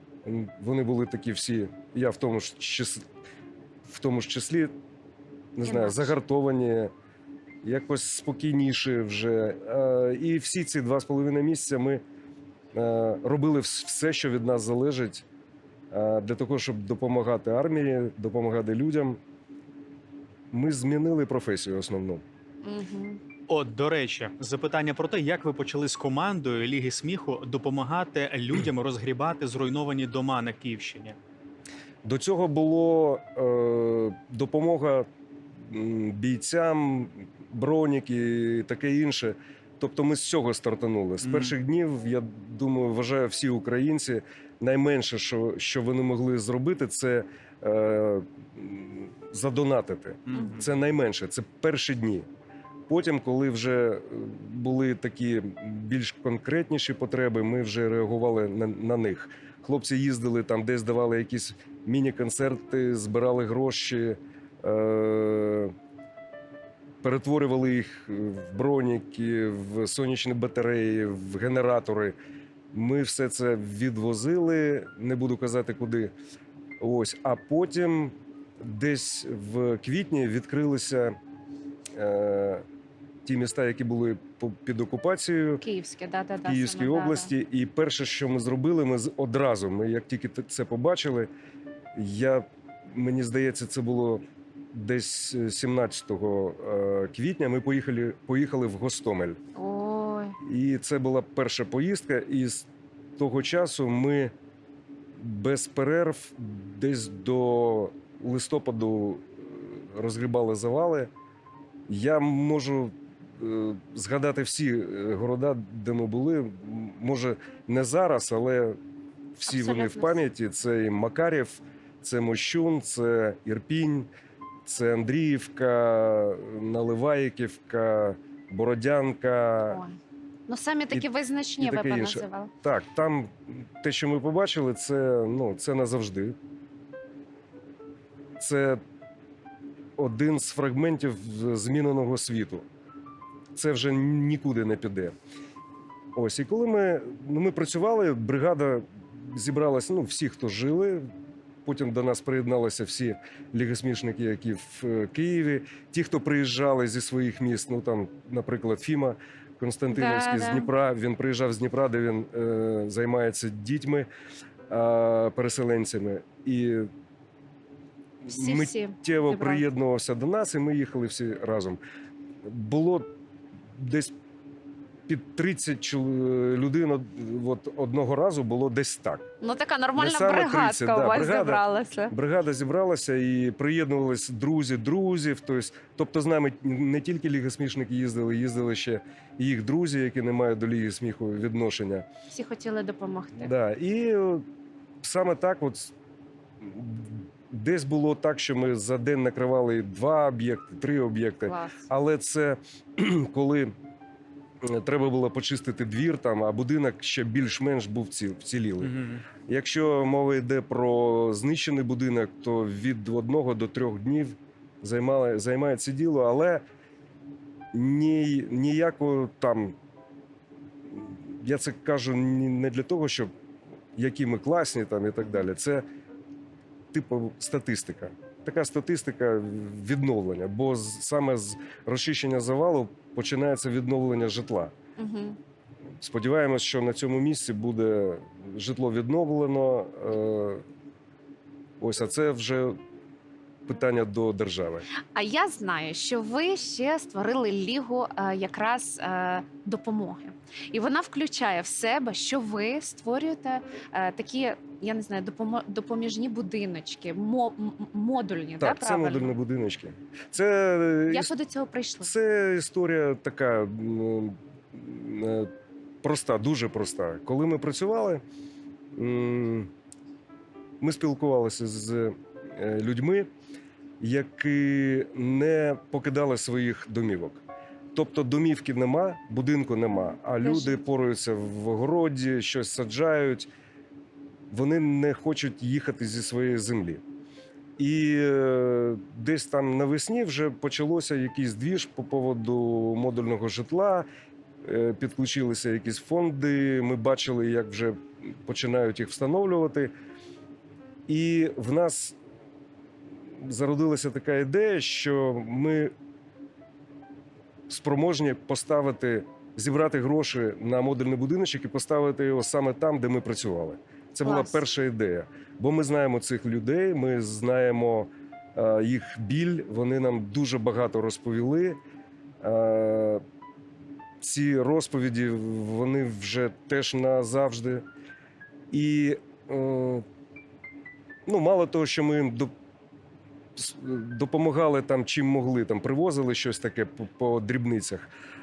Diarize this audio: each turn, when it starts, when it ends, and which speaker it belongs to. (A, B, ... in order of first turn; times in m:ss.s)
0:00.2-0:03.0 A
0:03.8-0:04.7 A
0:05.6-0:06.9 A
0:05.6-0:06.2 B
0:07.6-0:12.0 A
0:12.7-0:15.2 A
0:15.9-0:19.2 A
0:20.5-0:22.2 A
0:22.6-0:23.2 B
0:23.5-0:31.2 C
0:32.0-0:35.1 A
0:35.7-0:52.3 A
0:41.2-0:41.5 C
0:50.3-0:50.7 C
0:50.4-0:50.6 B
0:52.9-1:05.7 A
1:07.0-1:12.2 A
1:12.7-1:16.1 A
1:16.8-1:21.1 A
1:22.0-1:22.6 A
1:23.2-1:25.6 A
1:25.6-1:27.3 B
1:26.4-1:31.3 A
1:32.0-1:34.2 A
1:34.7-1:39.4 A
1:39.6-1:40.4 B
1:40.4-1:44.3 A
1:45.2-1:51.1 A
1:51.9-1:58.8 A
1:59.4-2:04.1 A
1:59.5-2:00.2 B
2:04.7-2:09.8 A
2:09.7-2:12.5 B
2:11.6-2:16.4 A
2:18.4-2:18.8 A
2:20.0-2:22.6 A
2:23.6-2:25.1 A
2:26.1-2:31.1 A
2:31.6-2:44.1 A
2:39.9-2:40.7 B
2:44.7-2:46.9 A
2:48.2-2:51.8 A
2:48.3-2:49.7 B
2:52.4-2:53.1 A
2:53.8-2:54.1 A
2:55.1-2:59.3 A
2:59.4-3:02.1 B
3:00.0-3:12.1 A
3:12.3-3:13.5 B
3:13.4-3:14.4 A
3:15.0-3:15.9 A
3:16.6-3:23.7 A
3:21.4-3:21.8 B
3:24.6-3:28.9 A
3:28.8-3:29.2 C
3:29.5-3:36.6 A
3:37.7-3:39.8 A
3:40.9-3:43.3 A
3:44.0-3:45.8 A
3:46.9-3:54.7 A
3:55.0-3:55.4 B
3:56.0-4:00.6 A
4:01.8-4:02.8 A
4:03.7-4:04.9 A
4:05.1-4:19.4 B
4:18.6-4:21.3 A
4:21.1-4:22.1 B
4:22.0-4:25.5 A
4:26.0-4:28.2 A
4:29.0-4:29.7 A
4:30.8-4:33.3 A
4:34.0-4:37.4 A
4:37.9-4:43.5 A
4:40.4-4:40.8 B
4:44.5-4:47.0 A
4:47.8-4:54.1 A
4:54.6-4:59.9 A
5:01.1-5:02.2 A
5:03.4-5:05.9 A
5:07.7-5:21.8 A
5:14.2-5:14.6 B
5:22.4-5:23.2 A
5:24.2-5:27.8 A
5:28.7-5:30.0 A
5:31.3-5:32.5 A
5:33.6-5:38.1 A